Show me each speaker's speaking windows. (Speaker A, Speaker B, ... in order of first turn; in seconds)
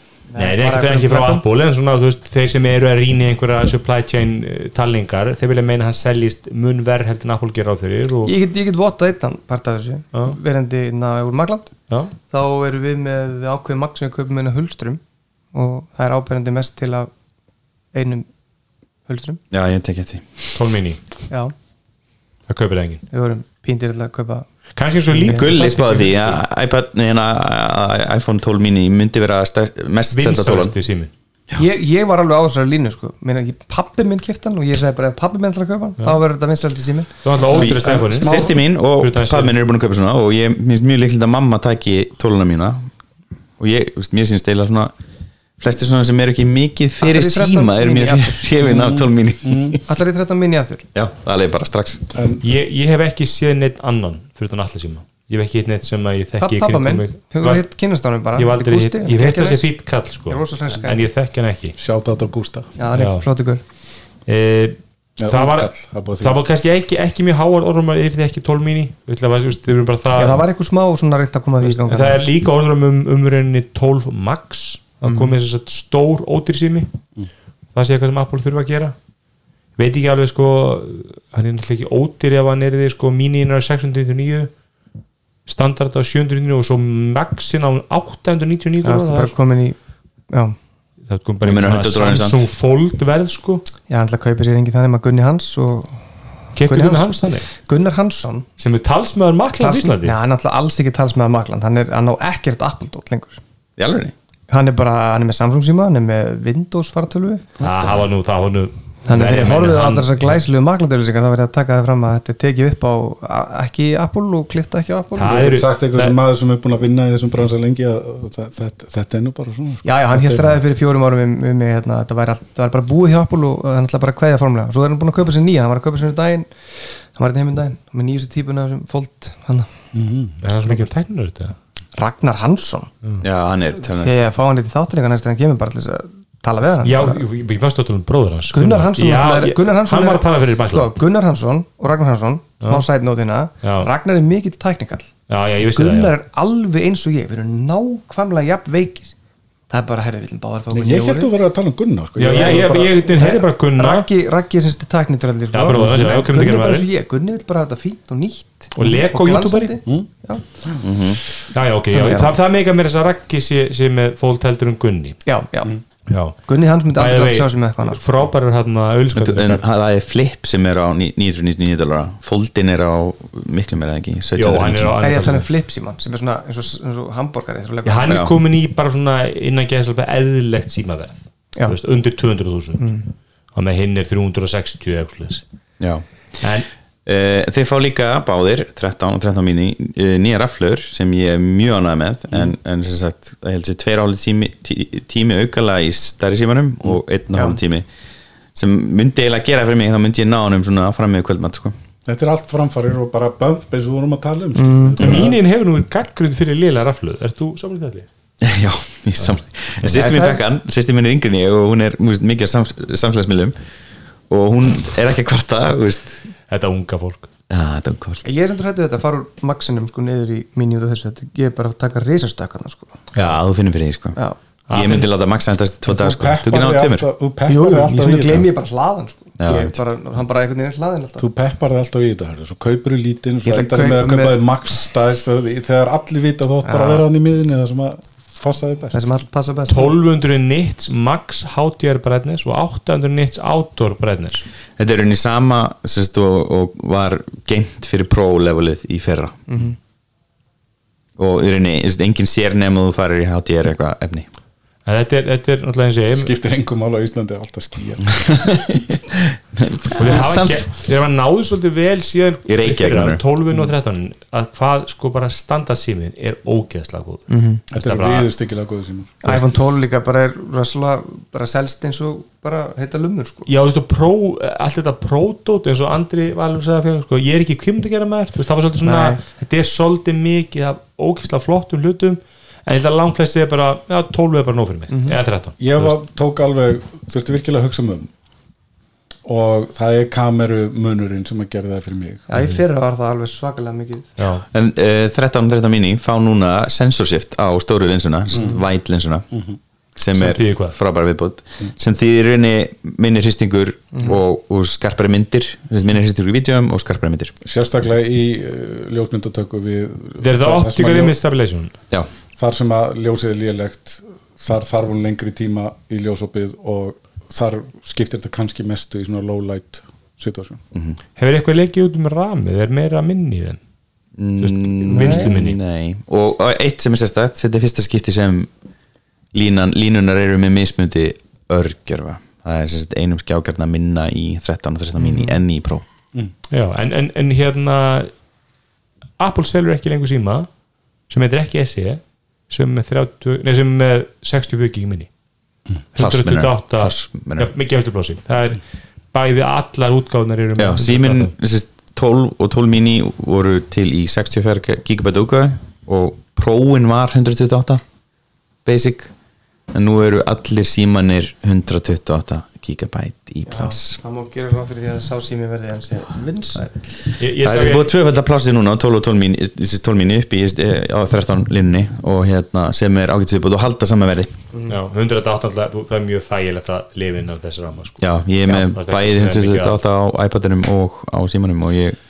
Speaker A: 0.3-1.4, 8.2-11.7, 12.3-15.0, 15.5-17.1, 17.9-18.3, 19.1-19.4, 23.1-24.5, 25.1-25.5, 31.6-37.1, 47.0-48.4, 49.9-50.8, 56.4-59.7, 60.3-61.0, 62.8-63.6, 70.1-72.2, 75.0-75.3, 88.8-89.8, 90.3-90.5, 93.9-96.0, 96.6-98.5, 99.6-103.4, 104.5-107.5, 109.0-115.5, 119.8-126.5, 127.1-129.7, 131.9-132.9, 133.8-137.2, 138.5-145.1, 145.6-149.1, 149.7-151.3, 152.2-160.4, 161.9-162.3, 165.2-165.7, 166.4-168.0, 175.0-178.2, 182.8-183.1, 197.3-197.6, 204.6-205.3, 209.9-210.4, 218.2-223.0, 227.5-231.2, 233.4-234.3, 236.6-237.0, 238.9-239.9, 249.5-249.8, 267.3-267.6, 269.2-273.5, 278.8-279.2, 284.9-285.2, 292.3-294.1, 303.9-304.2, 324.9-325.4, 335.0-335.4, 363.5-366.9
Speaker B: 0.4-8.3, 20.5-21.0, 22.5-23.0, 24.8-26.4, 30.1-31.1, 37.2-39.6, 52.4-57.6, 58.4-61.7, 62.9-63.2, 64.3-70.4, 71.6-76.9, 77.7-79.0, 79.8-84.5, 85.5-89.3, 91.1-93.6, 96.5-97.5, 98.6-100.2, 107.6-110.4, 115.1-116.2, 130.4-131.6, 136.8-140.9, 143.6-143.9, 145.3-146.1, 152.2-154.1, 155.5-156.9, 158.8-159.8, 161.5-165.2, 166.1-166.3, 166.9-169.6, 174.3-175.4, 177.8-182.9, 183.5-185.4, 186.4-186.7, 205.0-208.1, 216.5-217.3, 224.7-225.1, 239.7-244.4, 254.8-256.3, 259.9-267.2, 267.8-268.3, 273.5-285.9, 294.2-294.4, 300.1-300.8, 310.2-311.7, 321.2-323.6, 324.4-325.6, 336.5-338.1, 339.2-340.5, 341.1-345.1, 345.9-348.6, 349.1-351.3, 367.2-367.9, 374.7-379.8
Speaker C: 19.5-20.6, 25.2-30.7, 37.5-42.9, 43.6-44.9, 45.6-49.8, 50.9-52.1, 91.4-92.4, 103.8-104.1, 133.2-134.2, 160.8-161.2, 169.1-175.0, 178.1-178.3, 187.1-197.8, 198.5-201.7, 208.4-213.6, 214.3-216.2, 217.5-218.2, 223.1-224.2, 224.7-227.1, 229.4-229.8, 244.8-249.4, 251.2-254.3, 258.1-260.6, 262.5-263.2, 294.5-299.3, 299.9-307.3, 324.2-328.5, 329.3-335.8, 346.0-347.5, 350.6-357.8, 358.6-359.1, 359.7-363.9, 367.4-374.3, 378.0-382.0
Speaker D: 37.5-38.5, 48.6-49.8, 52.1-52.4, 61.8-62.7, 65.2-66.4, 115.3-120.6, 129.9-130.8, 150.7-153.0, 202.1-205.4, 225.9-228.5, 231.2-239.1, 256.1-258.4, 267.7-269.3, 285.6-288.1, 289.2-292.2, 299.3-299.6, 307.4-311.1, 312.4-320.6